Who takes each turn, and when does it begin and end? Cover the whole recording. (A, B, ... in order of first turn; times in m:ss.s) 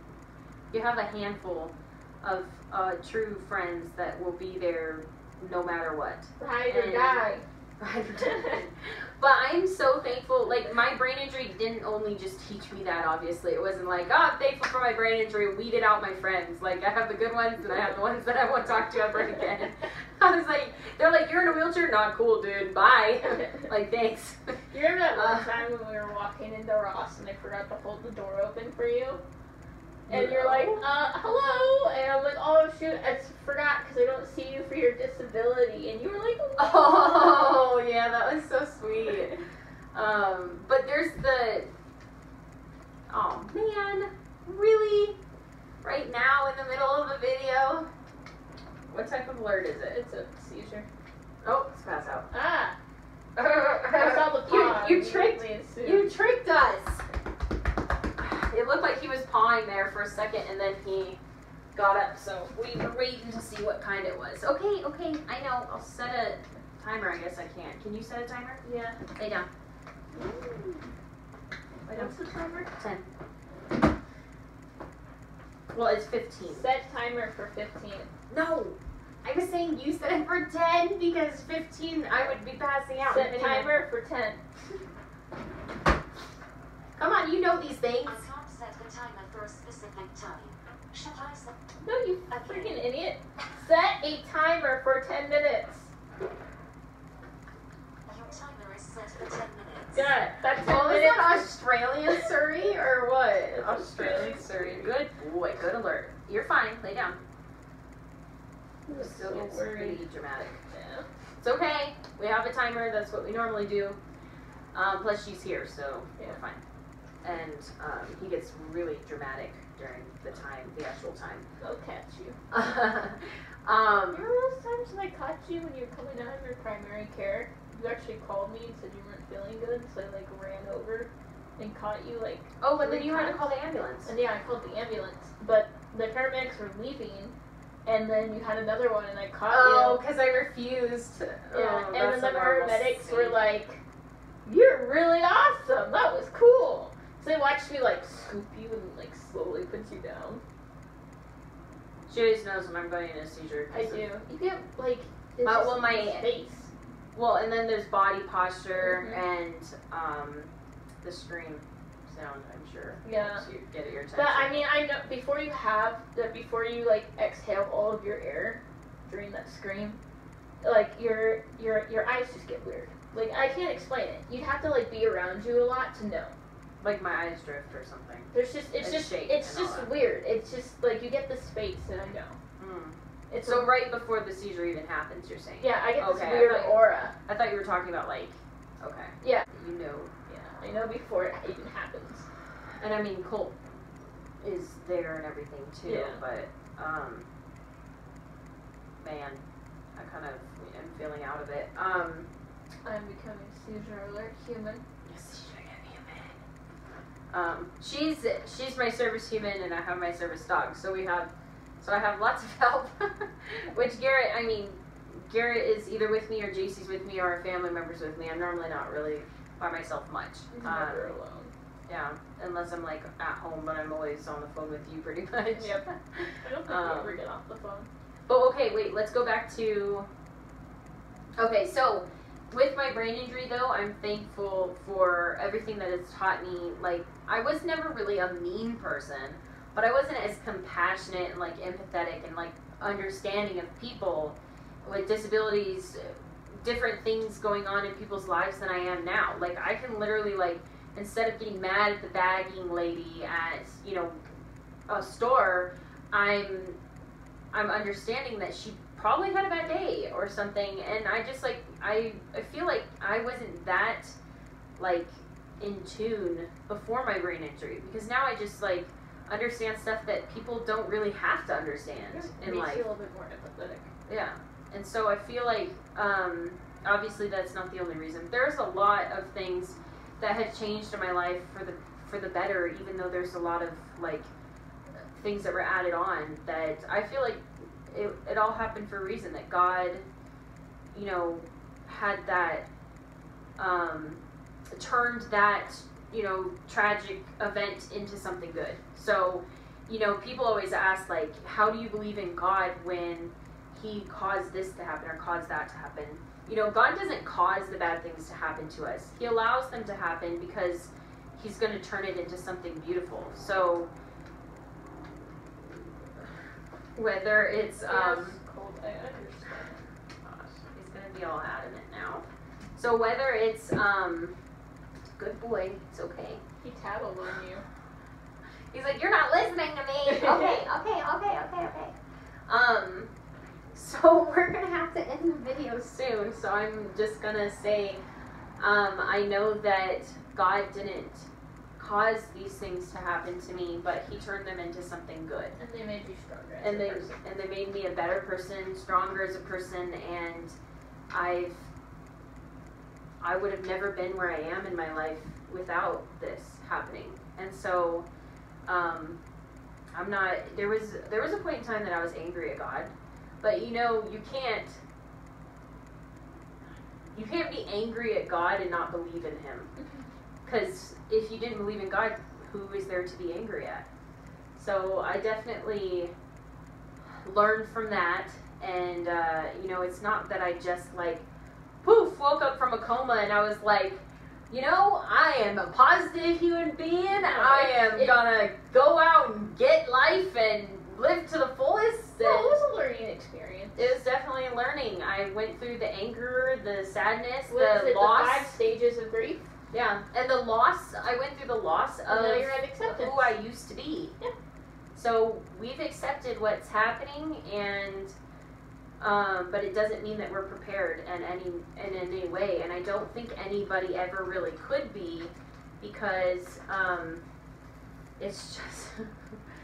0:00.7-0:07.3 A
0:06.4-0:07.4 B
0:07.8-0:24.6 A
0:08.3-0:08.6 B
0:24.7-0:29.2 B
0:25.1-0:25.6 A
0:30.1-0:30.9 A
0:30.1-0:37.6 B
0:36.6-0:39.4 A
0:39.9-0:41.7 A
0:43.1-0:45.2 A
0:45.8-0:47.9 A
0:48.9-0:50.0 A
0:49.9-0:50.9 B
0:51.4-0:52.3 A
0:52.3-0:52.8 B
0:53.4-0:57.0 A
0:53.8-0:56.1 B
0:58.2-1:01.2 A
1:01.7-1:08.6 A
1:08.6-1:09.0 B
1:09.2-1:09.5 A
1:10.1-1:10.9 B
1:11.9-1:13.1 A
1:11.9-1:12.7 B
1:15.7-1:16.7 A
1:16.5-1:18.1 B
1:18.3-1:23.8 A
1:23.0-1:24.4 B
1:27.0-1:28.3 A
1:28.1-1:31.6 C
1:31.8-1:35.9 B
1:32.3-1:32.8 C
1:38.1-1:40.1 C
1:39.9-1:41.6 B
1:40.6-1:47.2 A
1:43.5-1:44.5 B
1:48.9-1:50.0 B
1:48.9-1:50.6 A
1:50.7-1:51.1 B
1:51.4-1:54.0 A
1:54.7-1:56.6 A
1:57.2-2:01.5 A
2:01.6-2:02.4 B
2:02.5-2:04.3 A
2:04.1-2:13.4 B
2:12.6-2:14.1 A
2:14.0-2:20.0 B
2:19.5-2:23.4 A
2:21.5-2:23.8 B
2:24.5-2:30.4 B
2:32.1-2:34.1 A
2:33.7-2:36.7 B
2:35.4-2:36.3 A
2:37.1-2:40.5 A
2:38.8-2:39.2 B
2:41.0-2:44.6 A
2:43.0-2:43.5 B
2:44.1-2:50.0 B
2:50.6-2:56.4 B
2:56.8-2:59.9 A
2:58.3-3:02.4 B
3:02.6-3:10.1 A
3:03.3-3:03.7 B
3:05.6-3:07.1 B
3:10.3-3:12.3 B
3:12.8-3:13.6 A
3:14.4-3:17.3 A
3:15.8-3:16.2 B
3:19.0-3:19.4 A
3:20.0-3:22.3 A
3:22.8-3:24.8 B
3:25.1-3:26.4 A
3:27.3-3:41.2 A
3:40.5-3:41.5 B
3:41.9-3:47.2 A
3:45.6-3:47.9 B
3:48.3-3:50.1 A
3:51.4-4:14.2 A
4:14.9-4:16.8 A
4:17.5-4:24.2 A
4:24.8-4:32.9 A
4:32.0-4:33.9 B
4:34.1-4:44.3 A
4:45.1-4:50.0 A
4:50.9-4:52.7 A
4:53.6-5:13.9 A
5:17.0-5:18.4 A
5:17.8-5:19.9 B
5:20.2-5:24.4 A
5:25.2-5:26.4 A
5:26.6-5:27.6 B
5:28.7-5:32.0 A
5:32.5-5:33.1 A
5:33.7-5:38.0 A
5:38.6-5:45.6 A
5:45.6-5:47.1 B
5:46.6-5:50.6 A
5:51.1-5:51.7 A
5:53.2-5:58.1 A
5:58.6-5:59.2 A
5:59.9-6:04.8 A
6:07.1-6:09.7 A
6:09.8-6:10.0 B
6:10.4-6:13.9 A
6:14.6-6:16.1 A
6:17.2-6:21.2 A
6:21.8-6:32.6 A
6:27.1-6:28.2 B
6:32.2-6:33.9 B
6:33.8-6:38.6 A
6:37.5-6:39.5 B
6:39.7-6:44.2 A
6:42.1-6:43.3 B
6:44.9-6:48.1 A
6:49.0-6:57.2 A
6:58.2-6:59.4 A